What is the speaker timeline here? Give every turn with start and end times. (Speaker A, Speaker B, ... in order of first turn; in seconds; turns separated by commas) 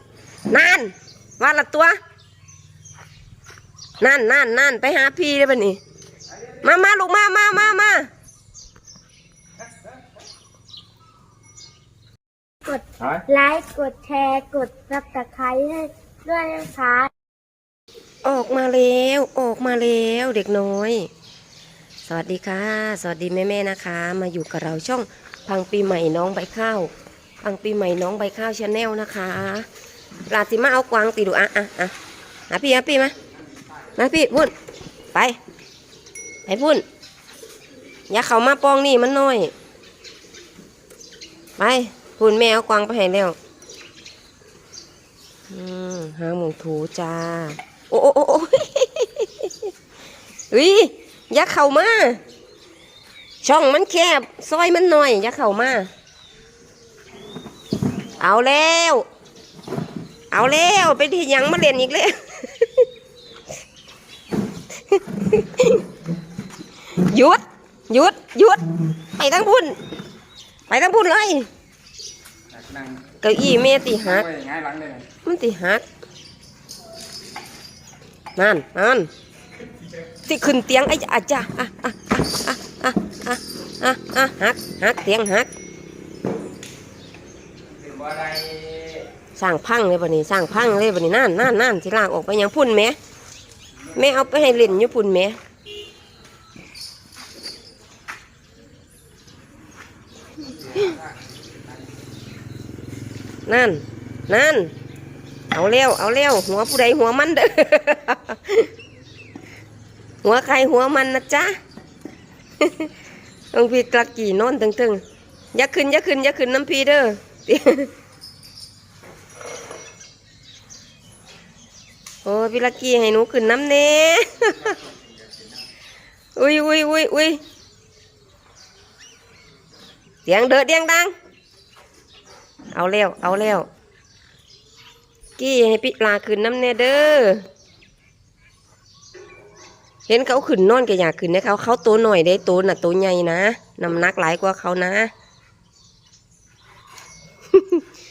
Speaker A: 0.5-2.0, Speaker A: 4.0-5.8, Speaker A: 6.6-8.1, Speaker B: 12.6-17.1, Speaker A: 18.2-21.1, Speaker A: 22.1-26.9, Speaker A: 27.4-29.7, Speaker A: 30.3-31.9, Speaker A: 32.5-33.1, Speaker C: 33.2-34.0, Speaker A: 34.0-34.5, Speaker A: 36.5-36.8, Speaker A: 38.1-39.5, Speaker A: 41.6-43.4, Speaker A: 45.5-49.7, Speaker A: 50.5-52.2, Speaker A: 53.4-55.9, Speaker A: 58.2-59.0, Speaker A: 60.3-62.9, Speaker A: 64.9-65.8, Speaker A: 66.9-68.6, Speaker A: 69.1-69.8, Speaker A: 70.7-71.5, Speaker C: 72.5-73.0, Speaker A: 73.2-74.3, Speaker C: 74.0-75.1, Speaker A: 75.2-75.8, Speaker A: 78.4-79.1, Speaker A: 80.2-85.5, Speaker C: 87.6-89.1, Speaker A: 89.4-93.0, Speaker C: 93.9-94.7, Speaker A: 93.9-95.4, Speaker C: 100.4-102.0, Speaker A: 103.5-104.7, Speaker A: 105.5-108.7, Speaker A: 110.2-111.5, Speaker A: 112.6-112.9, Speaker A: 113.5-115.0, Speaker A: 115.5-117.9, Speaker A: 122.2-124.7, Speaker C: 124.6-124.9, Speaker A: 126.3-127.4, Speaker A: 130.2-131.1, Speaker A: 132.7-133.7, Speaker A: 135.4-137.4, Speaker A: 140.1-145.1, Speaker A: 147.5-147.8